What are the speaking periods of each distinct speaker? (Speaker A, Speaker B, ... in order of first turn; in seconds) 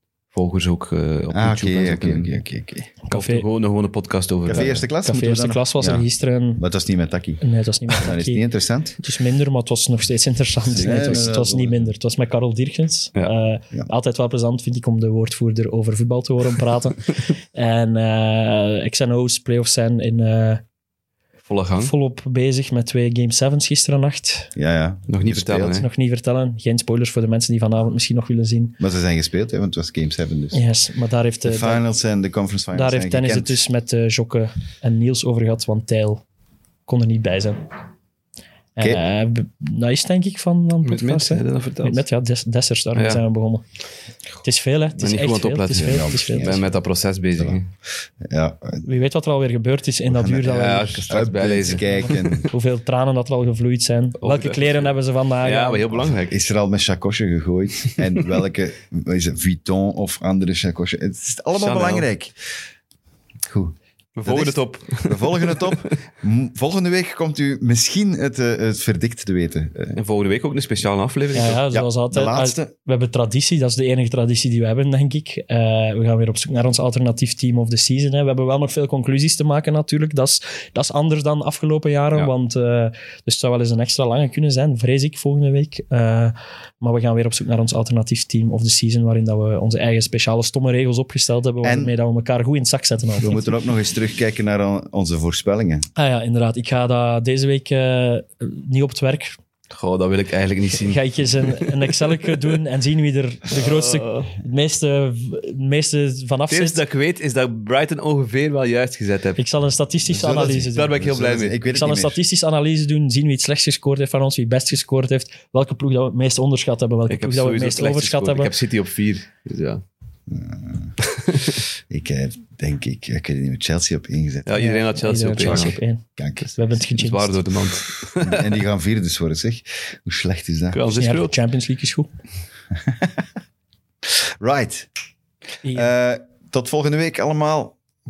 Speaker A: 0.3-2.3, 3.1-4.8, 10.8-11.2, 21.4-21.9, 25.1-25.9, 40.8-42.0, 42.9-43.2, 45.0-47.7, 50.5-52.5, 54.2-56.5, 61.5-62.1, 64.2-65.9, 70.0-71.6, 99.7-101.7, 103.5-104.3, 106.5-109.4, 110.1-111.6, 117.1-119.8, 121.0-121.6, 124.5-125.8, 126.5-128.5, 130.7-131.3
Speaker B: 1.3-2.9, 4.5-9.0, 10.7-11.9, 24.5-25.8, 28.8-30.6, 31.4-33.6, 45.7-46.7, 48.2-48.8, 50.0-52.5, 56.3-62.3, 63.5-70.0, 71.7-72.7, 91.6-91.9, 93.2-95.8, 110.1-112.2, 120.3-121.0, 121.9-124.5, 125.4-126.5, 128.2-130.8, 132.8-133.2, 134.4-134.9, 135.7-137.8
Speaker C: 3.0-3.4, 4.5-6.6, 7.4-8.4, 9.0-20.6, 21.8-24.5, 25.8-28.8, 30.5-31.8, 32.7-36.2, 36.9-37.7, 38.8-43.6, 44.4-46.6, 48.8-51.0, 51.9-56.0, 71.3-93.5, 96.0-99.4, 100.8-106.8, 109.4-111.0, 111.6-118.5, 124.5-126.0, 126.5-127.4, 130.9-132.1, 135.6-135.9